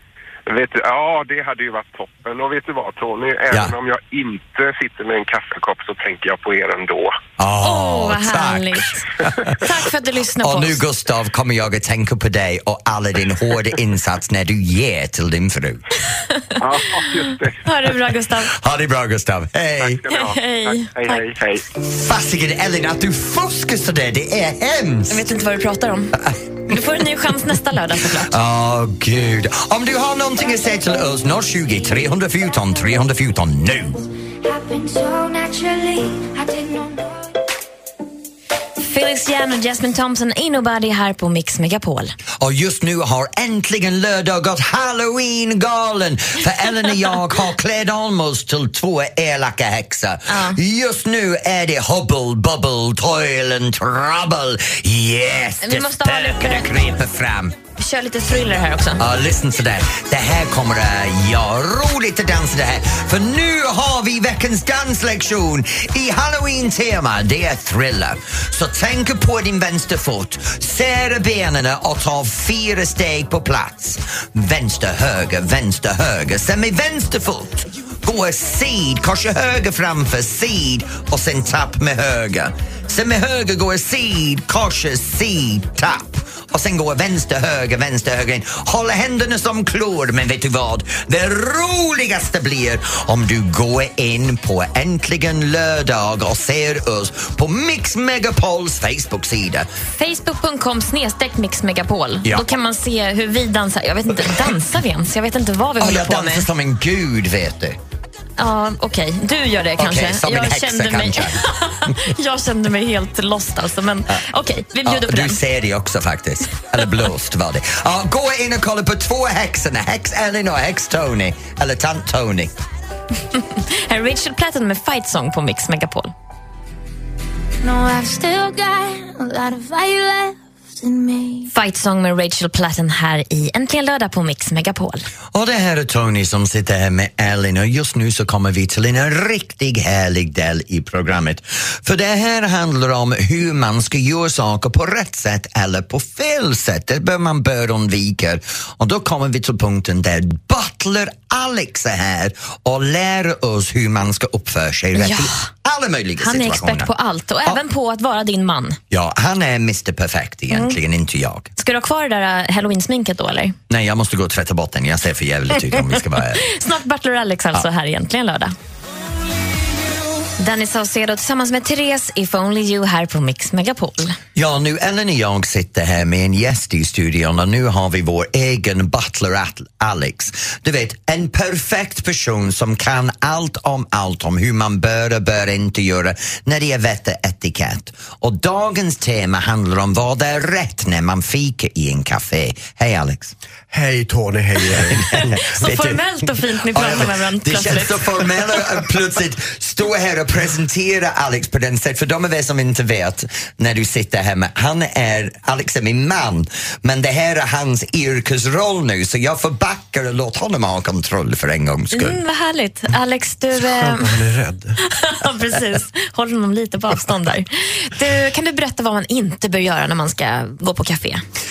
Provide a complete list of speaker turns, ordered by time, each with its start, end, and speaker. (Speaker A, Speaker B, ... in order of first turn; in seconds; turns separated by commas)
Speaker A: 0.5-7.2, Speaker B: 7.4-9.6, Speaker C: 7.6-10.8, Speaker B: 10.4-15.8, Speaker A: 16.6-17.7, Speaker C: 17.6-18.5, Speaker B: 18.4-20.0, Speaker A: 19.8-21.6, Speaker C: 20.1-21.2, Speaker B: 21.7-25.3, Speaker C: 25.1-28.3, Speaker B: 28.1-34.0, Speaker D: 34.4-37.4, Speaker C: 38.8-42.1, Speaker B: 42.4-57.5, Speaker C: 50.3-50.6, Speaker C: 55.6-56.7, Speaker C: 57.8-59.0, Speaker B: 59.0-99.7, Speaker C: 100.0-106.5, Speaker B: 105.8-107.8, Speaker C: 108.4-115.4, Speaker B: 109.8-111.4, Speaker B: 114.8-122.5, Speaker C: 123.3-126.1, Speaker D: 127.6-131.5, Speaker C: 131.5-135.0, Speaker B: 135.3-156.9, Speaker C: 154.9-155.4, Speaker C: 156.2-158.8, Speaker B: 158.9-161.5, Speaker C: 160.5-160.8, Speaker C: 161.6-163.6, Speaker B: 163.7-166.4, Speaker C: 166.4-168.5, Speaker C: 170.4-174.2, Speaker B: 174.3-193.3, Speaker E: 193.7-195.4, Speaker B: 194.8-196.0, Speaker C: 195.1-198.3, Speaker B: 196.7-212.2, Speaker C: 211.9-214.2, Speaker E: 213.6-214.8, Speaker C: 214.8-221.2